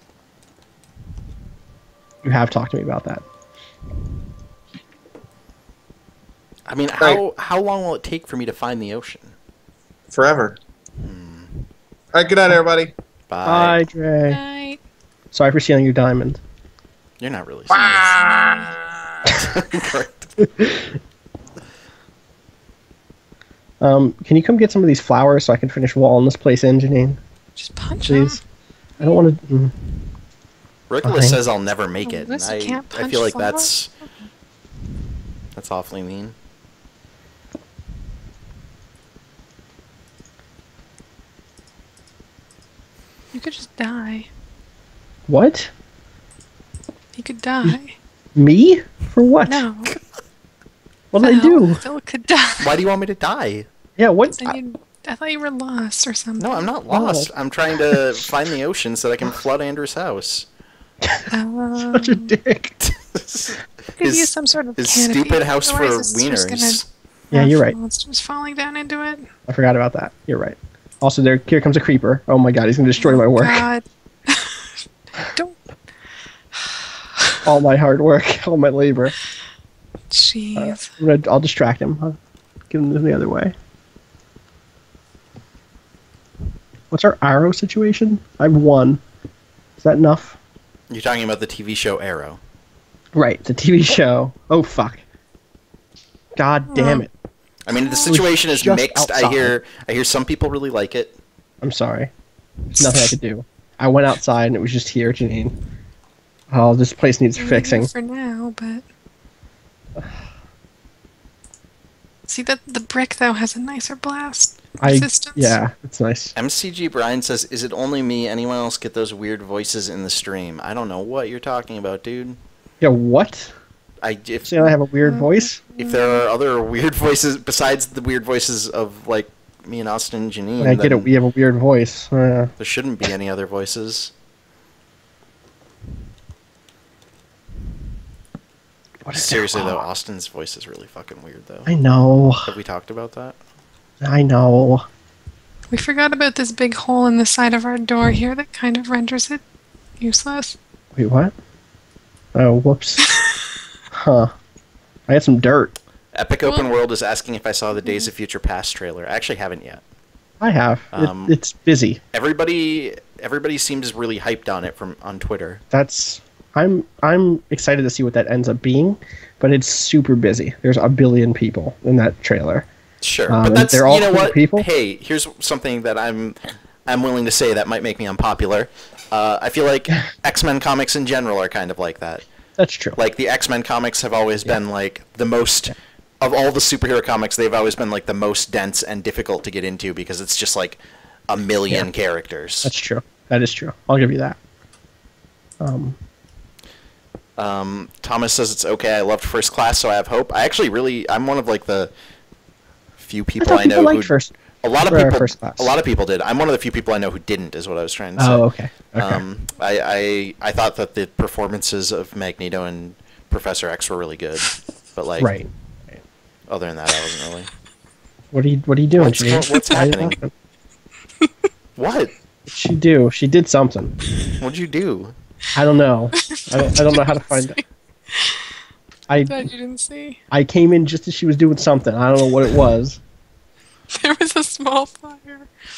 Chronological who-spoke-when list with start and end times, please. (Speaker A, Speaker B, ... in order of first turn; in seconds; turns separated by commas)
Speaker A: 2.2-3.2, Speaker B: 6.7-9.3, Speaker C: 10.1-10.6, Speaker B: 11.0-11.7, Speaker C: 12.1-12.9, Speaker B: 13.3-13.8, Speaker A: 13.4-14.4, Speaker D: 14.3-14.8, Speaker A: 15.3-16.4, Speaker B: 17.2-18.5, Speaker C: 17.7-18.9, Speaker B: 19.3-20.4, Speaker A: 20.4-20.9, Speaker A: 23.8-27.2, Speaker D: 27.6-28.4, Speaker A: 28.0-28.4, Speaker A: 29.0-29.7, Speaker B: 30.9-33.9, Speaker A: 31.0-31.4, Speaker D: 32.0-33.7, Speaker B: 35.5-36.4, Speaker D: 43.3-44.3, Speaker A: 45.3-45.7, Speaker D: 47.1-48.0, Speaker A: 48.4-49.6, Speaker D: 49.5-50.0, Speaker A: 51.1-51.8, Speaker D: 51.2-52.7, Speaker B: 52.6-53.7, Speaker A: 54.0-54.6, Speaker D: 54.3-56.7, Speaker B: 56.4-60.5, Speaker A: 56.9-57.3, Speaker A: 57.9-58.2, Speaker A: 61.0-61.3, Speaker D: 61.3-62.3, Speaker A: 61.9-62.8, Speaker B: 62.8-66.8, Speaker D: 64.0-66.8, Speaker A: 67.3-67.8, Speaker D: 67.3-69.3, Speaker A: 69.5-73.7, Speaker D: 73.0-74.6, Speaker D: 75.3-75.6, Speaker A: 77.5-79.2, Speaker D: 80.1-80.9, Speaker A: 80.6-82.2, Speaker A: 82.7-83.5, Speaker A: 86.9-89.0, Speaker A: 89.8-90.4, Speaker B: 90.9-92.4, Speaker A: 93.2-95.0, Speaker A: 96.4-97.1, Speaker D: 96.7-97.1, Speaker B: 97.7-101.2, Speaker D: 97.8-98.1, Speaker A: 98.1-99.5, Speaker A: 101.6-102.1, Speaker A: 102.7-105.5, Speaker A: 106.5-107.9, Speaker D: 107.4-108.8, Speaker D: 112.3-115.6, Speaker A: 114.8-116.3, Speaker B: 116.3-122.4, Speaker A: 122.8-123.5, Speaker B: 124.0-124.7, Speaker A: 124.5-125.6, Speaker D: 125.0-126.2, Speaker B: 125.8-131.1, Speaker A: 130.6-132.5, Speaker B: 132.6-134.1, Speaker A: 139.0-139.8, Speaker B: 139.1-141.7, Speaker A: 141.7-142.5, Speaker B: 142.4-143.4, Speaker A: 144.0-144.9, Speaker D: 145.7-149.4, Speaker D: 150.0-150.6, Speaker A: 151.0-151.3, Speaker A: 152.3-153.1, Speaker A: 153.9-154.3, Speaker A: 155.1-155.8, Speaker B: 156.1-159.8, Speaker A: 160.4-162.0, Speaker B: 160.9-161.3, Speaker B: 162.1-165.6, Speaker A: 165.7-172.7, Speaker B: 173.0-182.2, Speaker A: 173.3-174.7, Speaker A: 182.6-183.0, Speaker B: 182.9-192.7, Speaker A: 192.6-194.4, Speaker A: 195.6-196.0, Speaker B: 197.4-201.9, Speaker B: 203.0-208.4, Speaker A: 203.4-204.3, Speaker A: 204.9-205.7, Speaker A: 208.2-209.2, Speaker B: 209.0-215.3, Speaker A: 215.2-216.0, Speaker B: 216.5-217.5, Speaker A: 218.3-220.3, Speaker B: 219.0-220.2, Speaker B: 221.8-222.1, Speaker A: 222.5-223.9, Speaker B: 224.4-225.2, Speaker A: 225.6-227.6, Speaker D: 226.2-228.4, Speaker A: 229.1-229.5, Speaker D: 229.2-230.2, Speaker A: 230.3-233.0, Speaker D: 233.9-235.5